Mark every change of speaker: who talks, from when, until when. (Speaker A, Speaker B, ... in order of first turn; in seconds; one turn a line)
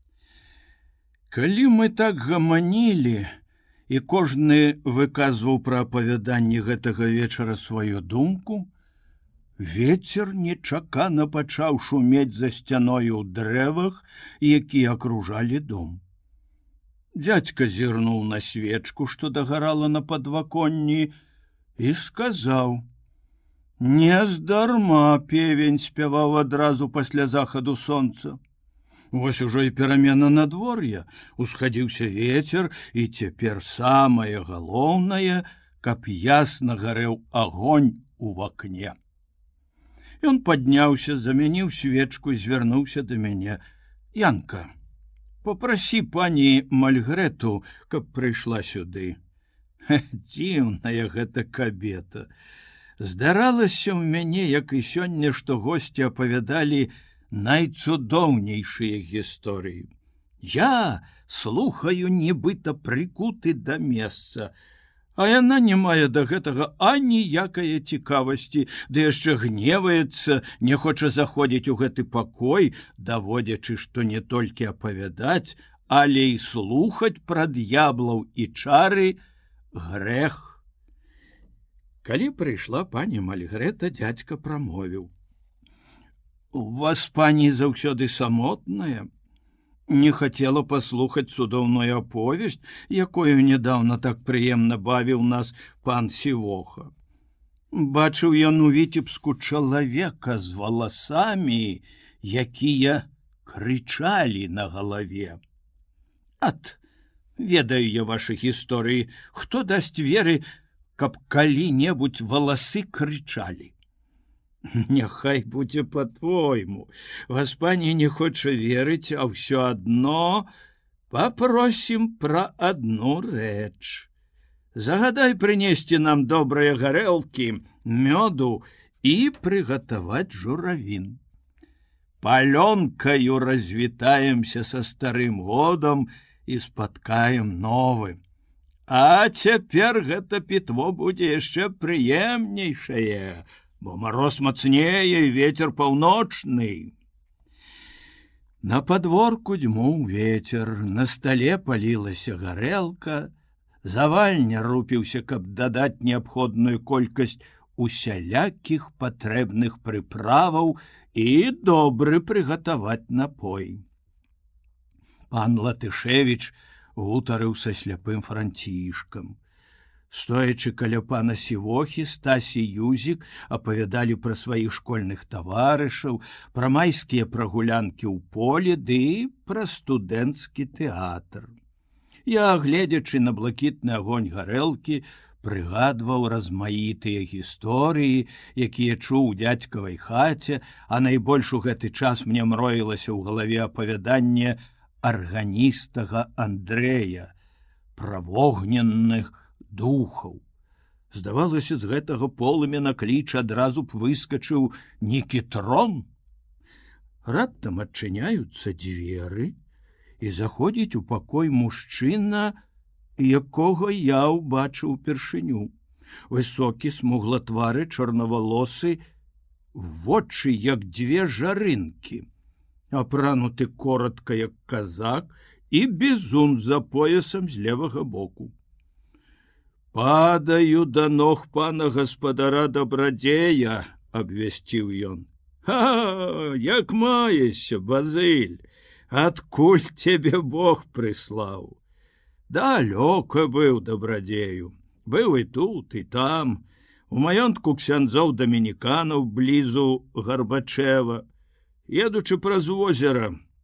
Speaker A: 1.3-3.3
Speaker A: 3.9-8.7
Speaker A: 9.6-16.0
Speaker A: 17.2-21.1
Speaker A: 21.8-22.8
Speaker A: 23.8-28.4
Speaker A: 29.1-39.0
Speaker A: 40.2-43.6
Speaker A: 44.1-44.7
Speaker A: 45.4-49.2
Speaker A: 49.9-52.3
Speaker A: 53.0-59.9
Speaker A: 60.4-64.5
Speaker A: 65.2-79.2
Speaker A: 79.7-80.6
Speaker A: 82.0-85.1
Speaker A: 86.5-89.1
Speaker A: 89.9-96.9
Speaker A: 97.7-105.4
Speaker A: 106.4-106.8
Speaker A: 107.4-110.4
Speaker A: 111.0-113.7
Speaker A: 114.7-120.5
Speaker A: 121.1-124.1
Speaker A: 124.7-131.2
Speaker A: 132.2-138.2
Speaker A: 138.9-146.9
Speaker A: 148.6-153.3
Speaker A: 153.8-163.8
Speaker A: 165.3-169.4
Speaker A: 170.1-181.5
Speaker A: 182.3-197.3
Speaker A: 197.9-200.4
Speaker A: 201.1-206.1
Speaker A: 207.2-209.5
Speaker A: 210.2-212.6
Speaker A: 213.2-215.7
Speaker A: 216.3-219.0
Speaker A: 219.7-222.3
Speaker A: 222.9-228.5
Speaker A: 229.9-241.8
Speaker A: 242.5-251.2
Speaker A: 251.9-253.3